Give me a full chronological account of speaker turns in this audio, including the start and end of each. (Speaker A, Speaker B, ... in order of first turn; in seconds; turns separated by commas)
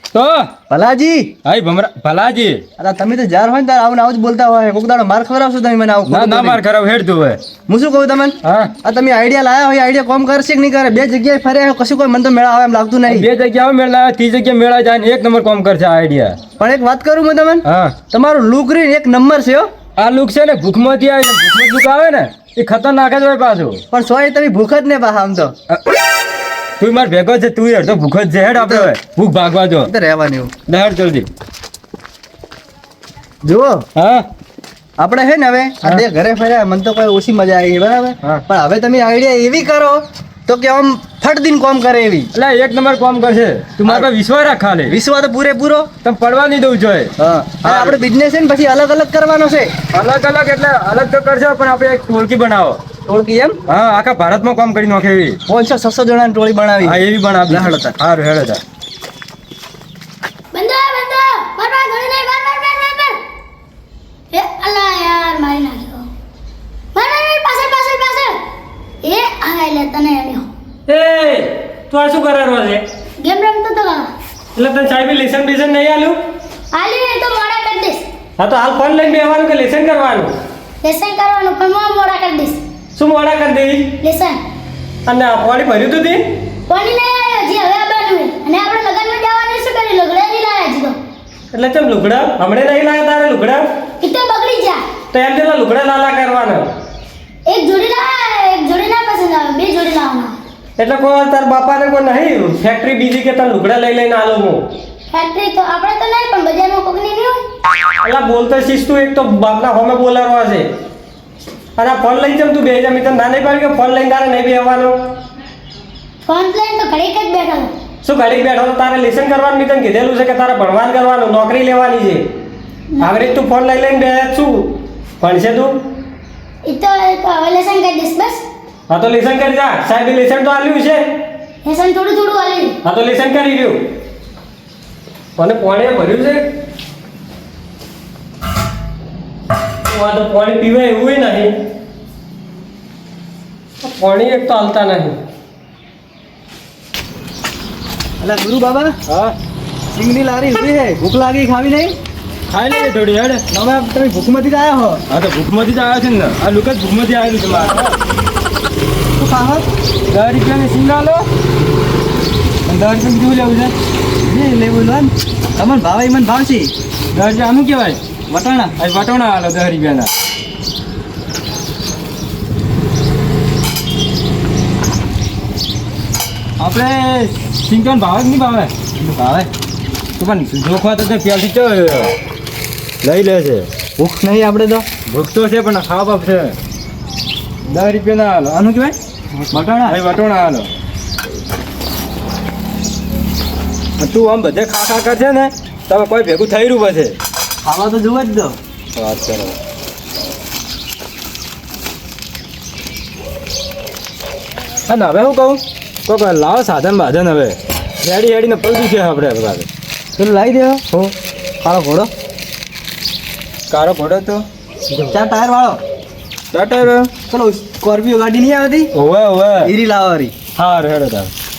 Speaker A: 0.1-0.5, Speaker B: 0.7-1.3, Speaker A: 1.4-2.6, Speaker B: 2.8-6.6, Speaker A: 6.1-7.4, Speaker B: 7.7-13.3, Speaker A: 8.4-8.7, Speaker A: 13.1-16.4, Speaker B: 16.6-19.7, Speaker A: 17.6-18.0, Speaker A: 20.0-23.8, Speaker B: 23.9-25.5, Speaker A: 26.8-29.9, Speaker B: 28.6-28.9, Speaker B: 29.8-30.5, Speaker A: 30.7-31.3, Speaker B: 33.4-33.9, Speaker A: 34.0-34.3, Speaker B: 35.0-42.3, Speaker A: 42.3-44.9, Speaker B: 43.8-44.1, Speaker B: 44.9-45.9, Speaker A: 46.0-47.1, Speaker B: 47.2-49.7, Speaker A: 47.6-48.0, Speaker A: 49.9-52.8, Speaker B: 53.1-53.6, Speaker A: 53.7-55.4, Speaker B: 55.5-58.0, Speaker A: 56.8-58.6, Speaker C: 60.5-63.2, Speaker C: 64.3-66.1, Speaker C: 67.0-68.4, Speaker C: 69.0-70.5, Speaker D: 70.9-72.8, Speaker C: 73.2-74.1, Speaker D: 74.6-76.2, Speaker C: 76.7-78.1, Speaker D: 78.4-80.3, Speaker C: 80.8-82.6, Speaker D: 83.0-84.0, Speaker C: 84.0-84.4, Speaker D: 85.1-86.2, Speaker C: 86.7-91.0, Speaker D: 91.5-93.6, Speaker C: 94.0-94.8, Speaker D: 95.1-96.7, Speaker C: 97.5-100.4, Speaker D: 100.8-104.6, Speaker C: 105.1-107.4, Speaker D: 108.0-110.7, Speaker D: 111.8-115.0, Speaker C: 116.3-117.7, Speaker D: 118.0-122.2, Speaker C: 122.9-123.3, Speaker D: 123.0-125.8, Speaker C: 126.7-128.4, Speaker D: 128.9-131.1, Speaker C: 131.6-132.8, Speaker D: 132.8-133.8, Speaker D: 135.4-136.4, Speaker D: 139.9-141.5, Speaker D: 143.8-145.2, Speaker B: 148.2-149.0, Speaker A: 149.1-149.3, Speaker B: 149.9-152.0, Speaker A: 152.5-153.4, Speaker B: 153.5-155.0, Speaker A: 155.1-157.9, Speaker B: 159.2-159.7, Speaker A: 160.1-161.2, Speaker A: 162.7-163.7, Speaker B: 164.2-166.7, Speaker A: 167.1-168.0, Speaker B: 168.3-168.7, Speaker A: 168.8-170.1, Speaker A: 176.6-178.7, Speaker B: 179.0-179.5, Speaker A: 180.2-182.1, Speaker A: 183.0-183.7, Speaker B: 184.0-184.9, Speaker A: 185.1-186.6, Speaker A: 187.7-189.0, Speaker B: 189.5-190.0, Speaker A: 189.8-190.7, Speaker A: 194.0-197.2, Speaker B: 197.6-198.6, Speaker A: 199.0-199.6, Speaker A: 204.9-209.7, Speaker B: 210.2-210.8, Speaker B: 211.6-212.1, Speaker A: 213.7-214.4, Speaker B: 215.1-215.8, Speaker A: 216.5-217.1, Speaker B: 217.3-218.9, Speaker A: 218.9-219.7, Speaker B: 219.6-220.3, Speaker A: 220.6-221.3